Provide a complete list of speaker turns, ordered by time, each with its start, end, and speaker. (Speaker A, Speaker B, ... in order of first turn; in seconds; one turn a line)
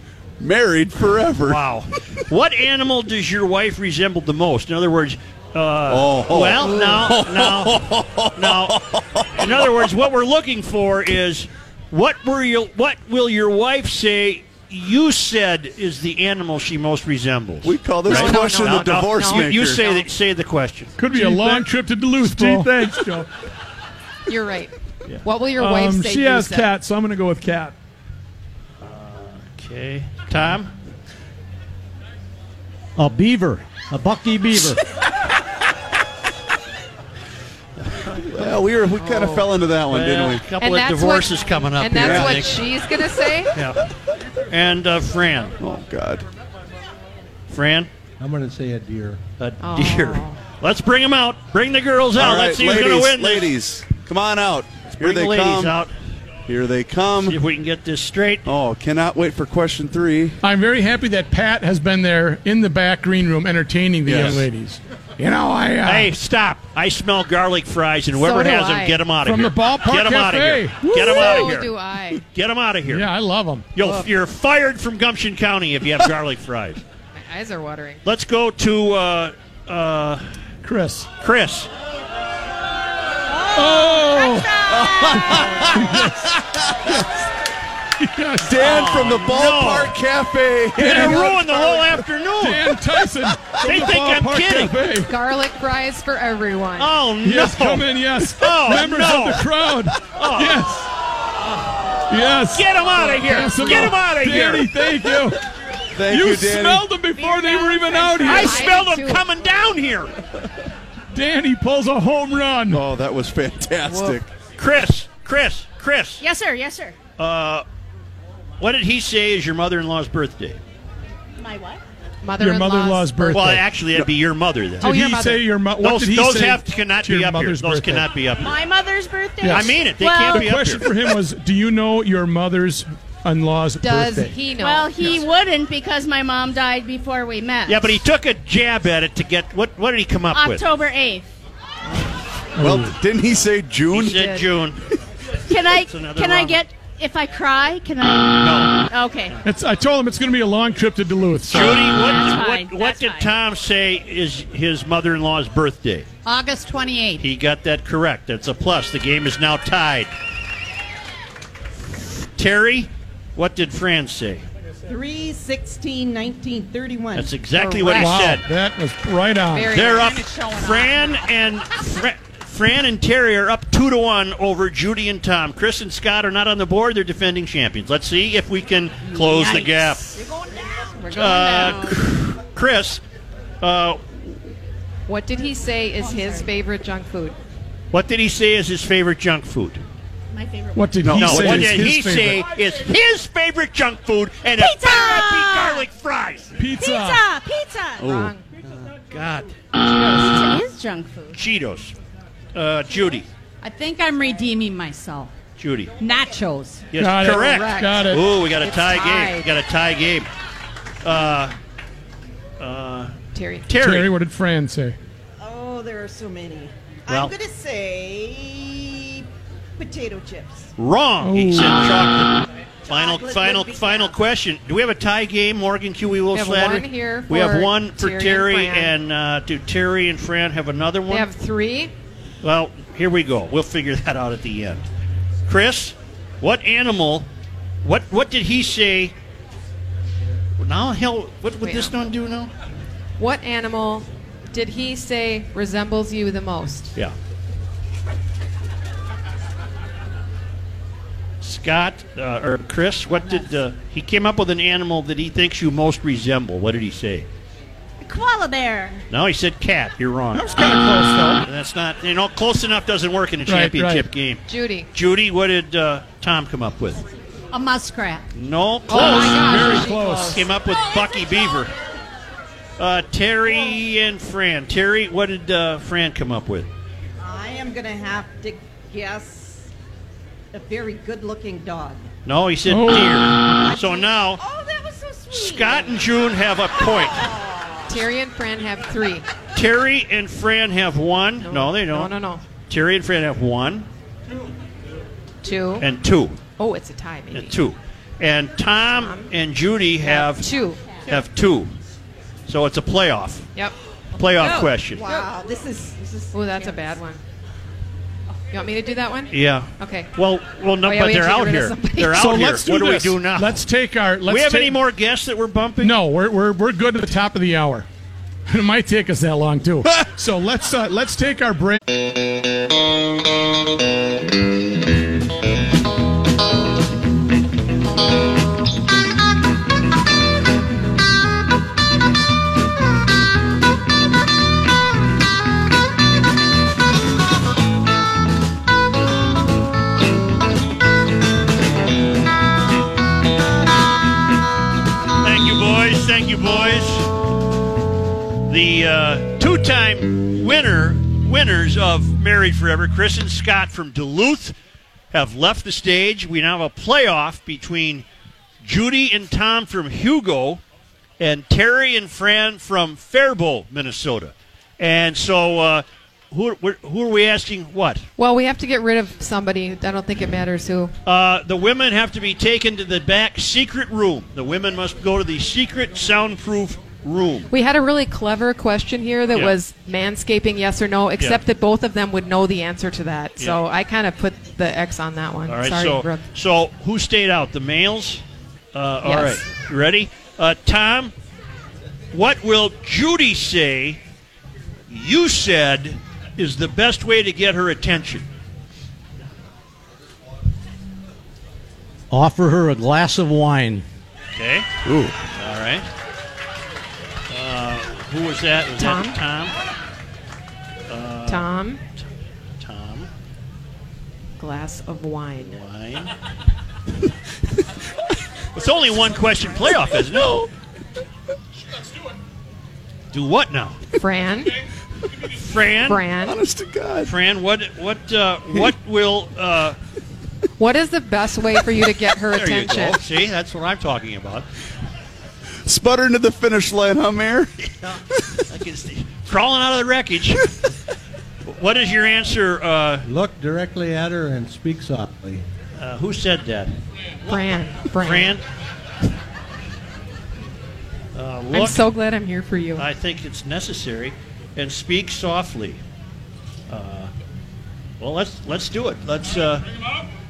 Speaker A: 0.4-1.6
Speaker B: 1.4-8.8
Speaker A: 5.9-9.5
Speaker B: 9.3-20.9
Speaker A: 17.6-19.8
Speaker C: 18.0-20.0
Speaker D: 21.0-22.8
Speaker E: 21.1-23.3
Speaker C: 24.3-26.7
Speaker E: 25.6-27.8
Speaker B: 28.8-30.7
Speaker F: 33.0-34.8
Speaker B: 37.9-38.5
Speaker A: 38.2-40.4
Speaker C: 39.0-39.5
Speaker B: 39.9-42.7
Speaker C: 40.6-43.5
Speaker A: 42.0-42.4
Speaker B: 43.5-43.9
Speaker B: 44.5-45.5
Speaker A: 45.6-46.2
Speaker B: 47.5-47.9
Speaker G: 48.2-49.2
Speaker B: 49.4-53.5
Speaker C: 49.6-50.4
Speaker A: 52.1-55.8
Speaker B: 55.0-55.9
Speaker A: 56.5-57.4
Speaker B: 57.2-58.5
Speaker A: 58.5-60.4
Speaker D: 60.4-66.1
Speaker A: 64.0-64.5
Speaker B: 65.8-71.7
Speaker C: 68.1-69.1
Speaker D: 69.2-71.5
Speaker C: 70.8-72.2
Speaker B: 72.3-73.1
Speaker D: 72.9-73.8
Speaker B: 73.7-76.8
Speaker C: 73.8-74.1
Speaker C: 77.1-78.0
Speaker B: 78.0-80.2
Speaker D: 80.6-81.1
Speaker B: 81.2-81.7
Speaker D: 83.5-86.4
Speaker A: 84.7-87.1
Speaker D: 88.0-88.6
Speaker A: 88.4-91.4
Speaker B: 88.6-89.9
Speaker D: 90.8-91.5
Speaker B: 90.8-92.7
Speaker D: 92.4-95.1
Speaker B: 93.5-94.8
Speaker C: 95.0-97.0
Speaker B: 96.8-99.5
Speaker D: 97.2-100.9
Speaker B: 100.0-100.7
Speaker D: 102.1-105.4
Speaker B: 102.5-104.7
Speaker A: 105.9-106.9
Speaker D: 106.1-108.7
Speaker C: 107.2-109.3
Speaker B: 108.2-110.1
Speaker D: 111.1-112.8
Speaker A: 112.7-114.3
Speaker C: 113.8-114.2
Speaker B: 114.6-116.2
Speaker H: 116.2-117.0
Speaker B: 117.2-117.6
Speaker B: 118.6-120.6
Speaker H: 121.4-121.8
Speaker C: 122.2-123.5
Speaker D: 122.4-124.0
Speaker B: 123.3-125.0
Speaker C: 124.8-125.5
Speaker D: 124.8-128.1
Speaker B: 125.8-128.6
Speaker H: 128.4-130.5
Speaker D: 129.4-134.3
Speaker B: 129.5-130.9
Speaker C: 133.8-135.2
Speaker H: 134.6-138.0
Speaker B: 137.7-140.6
Speaker H: 140.3-141.2
Speaker D: 142.6-142.9
Speaker A: 142.6-144.2
Speaker B: 143.9-144.8
Speaker C: 144.1-144.5
Speaker H: 145.5-149.4
Speaker B: 145.7-146.6
Speaker B: 148.3-148.8
Speaker D: 149.4-152.0
Speaker B: 151.5-156.1
Speaker H: 151.9-153.3
Speaker I: 156.2-157.2
Speaker B: 157.2-160.1
Speaker B: 161.8-164.4
Speaker J: 164.9-167.3
Speaker B: 167.1-168.4
Speaker C: 167.5-168.3
Speaker D: 167.9-169.8
Speaker C: 169.5-170.5
Speaker B: 169.7-180.2
Speaker I: 170.4-171.1
Speaker H: 179.1-182.0
Speaker B: 181.1-183.0
Speaker B: 183.6-184.4
Speaker C: 185.1-187.3
Speaker H: 186.1-186.4
Speaker B: 187.9-189.8
Speaker H: 190.3-190.9
Speaker D: 190.7-192.4
Speaker A: 191.0-191.8
Speaker B: 191.1-196.6
Speaker H: 194.6-195.9
Speaker D: 196.6-197.2
Speaker H: 196.8-198.1
Speaker A: 198.0-198.3
Speaker C: 198.1-198.4
Speaker B: 199.1-199.5
Speaker C: 199.8-200.4
Speaker H: 200.0-201.4
Speaker B: 201.3-201.9
Speaker B: 202.5-203.3
Speaker I: 203.6-205.3
Speaker B: 205.6-205.9
Speaker I: 206.0-206.9
Speaker B: 206.9-210.3
Speaker D: 206.9-208.2
Speaker C: 207.2-209.5
Speaker B: 211.0-211.6
Speaker B: 212.6-213.1
Speaker C: 213.3-213.7
Speaker B: 213.7-214.1
Speaker D: 213.8-214.9
Speaker J: 215.4-219.3
Speaker B: 217.1-217.3
Speaker J: 219.8-220.7
Speaker B: 220.8-231.3
Speaker D: 221.2-221.9
Speaker J: 222.9-224.2
Speaker C: 226.3-228.9
Speaker C: 231.1-231.9
Speaker B: 232.4-234.9
Speaker B: 235.5-237.3
Speaker B: 237.8-239.1
Speaker B: 240.6-242.5
Speaker C: 241.6-241.9
Speaker C: 243.2-246.9
Speaker B: 251.4-257.3
Speaker H: 258.0-259.0
Speaker B: 259.1-260.5
Speaker D: 260.3-261.4
Speaker B: 261.4-267.0
Speaker D: 263.4-264.1
Speaker C: 264.5-264.9
Speaker I: 267.5-268.3
Speaker B: 268.3-271.7
Speaker D: 268.9-270.4
Speaker C: 269.0-270.4
Speaker B: 272.8-276.7
Speaker J: 277.2-279.7
Speaker J: 280.5-282.1
Speaker B: 282.2-284.4
Speaker D: 282.7-283.4
Speaker J: 283.5-286.2
Speaker B: 285.3-287.3
Speaker J: 286.8-288.0
Speaker C: 287.9-289.2
Speaker B: 289.5-293.9
Speaker C: 291.4-292.4
Speaker C: 295.4-295.9
Speaker B: 295.8-296.4
Speaker C: 296.6-297.6
Speaker B: 297.3-300.5
Speaker C: 298.9-299.3
Speaker C: 300.0-300.8
Speaker B: 301.1-301.7
Speaker B: 302.5-303.5
Speaker B: 304.1-305.0
Speaker J: 304.4-307.0
Speaker C: 306.3-307.2
Speaker C: 308.5-310.1
Speaker B: 309.3-313.6
Speaker C: 310.8-312.3
Speaker D: 312.1-314.8
Speaker B: 314.2-316.0
Speaker D: 315.8-317.9
Speaker D: 318.5-321.8
Speaker B: 345.2-347.1
Speaker B: 348.5-354.5
Speaker B: 355.1-358.0
Speaker B: 358.6-360.6
Speaker B: 361.2-368.1
Speaker C: 368.2-370.9
Speaker B: 371.0-377.5
Speaker C: 377.5-386.2
Speaker B: 385.5-388.2
Speaker B: 388.7-391.1
Speaker C: 389.0-389.4
Speaker B: 392.1-394.0
Speaker B: 394.9-398.2
Speaker F: 402.1-403.8
Speaker B: 404.3-404.7
Speaker A: 404.8-405.1
Speaker B: 405.4-405.9
Speaker B: 407.3-409.5
Speaker C: 408.8-409.2
Speaker B: 410.9-411.5
Speaker C: 411.3-411.8
Speaker B: 412.6-413.1
Speaker C: 414.4-415.6
Speaker B: 415.4-416.1
Speaker B: 418.5-420.5
Speaker B: 423.1-423.8
Speaker C: 424.0-424.6
Speaker B: 425.4-426.1
Speaker C: 425.8-426.4
Speaker A: 426.2-427.1
Speaker B: 427.0-429.8
Speaker C: 430.6-433.0
Speaker B: 432.3-434.4
Speaker A: 435.6-437.5
Speaker B: 438.5-440.5
Speaker B: 441.4-443.0
Speaker G: 443.0-445.4
Speaker B: 445.8-446.7
Speaker C: 447.2-448.4
Speaker B: 448.0-448.4
Speaker B: 451.1-451.9
Speaker C: 451.5-452.9
Speaker B: 452.8-455.8
Speaker B: 456.7-457.1
Speaker B: 458.0-459.7